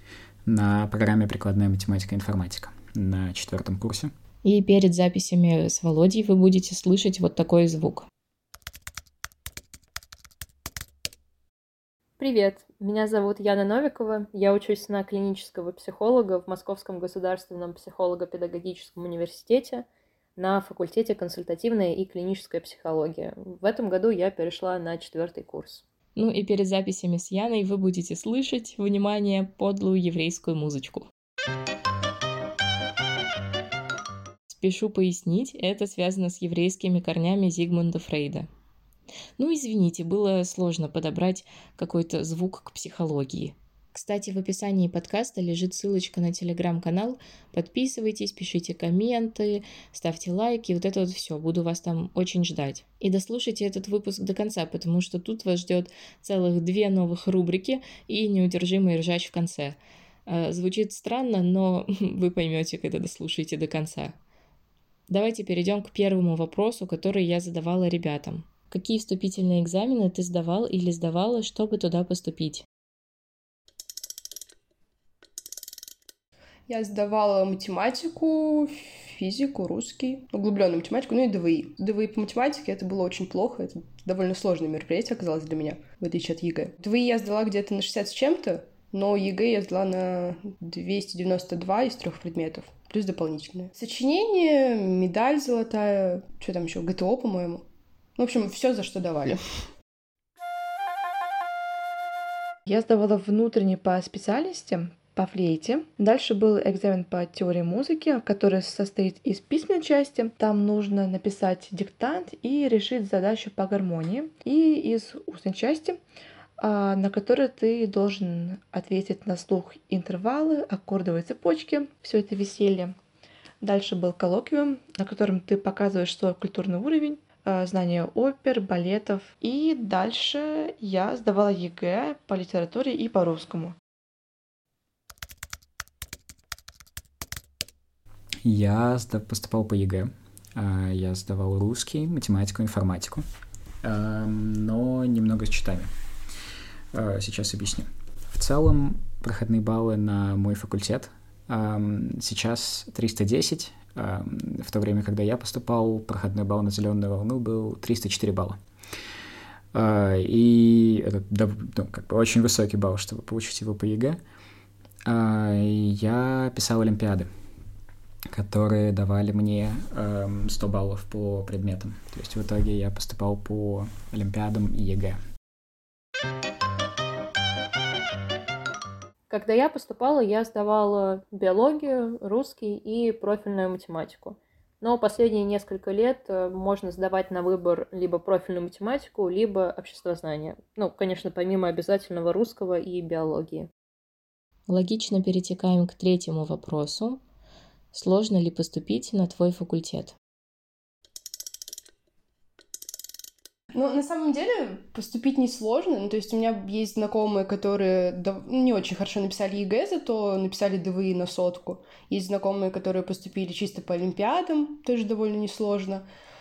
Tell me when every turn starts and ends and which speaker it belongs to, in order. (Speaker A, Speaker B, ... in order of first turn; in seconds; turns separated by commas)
Speaker A: 0.5-4.1, Speaker B: 4.4-8.1, Speaker C: 12.2-25.8, Speaker B: 26.1-31.1, Speaker B: 34.5-38.5, Speaker B: 39.4-64.2, Speaker B: 65.1-72.6, Speaker D: 76.7-97.6, Speaker D: 98.2-99.4, Speaker E: 102.7-116.0, Speaker E: 116.6-123.0, Speaker E: 123.6-133.8, Speaker A: 138.4-143.2, Speaker A: 143.8-145.9, Speaker A: 146.9-158.6, Speaker A: 159.7-164.2, Speaker A: 165.1-167.3, Speaker A: 168.3-175.2, Speaker C: 179.3-193.7, Speaker B: 194.7-197.2, Speaker B: 197.9-200.1, Speaker D: 203.7-216.1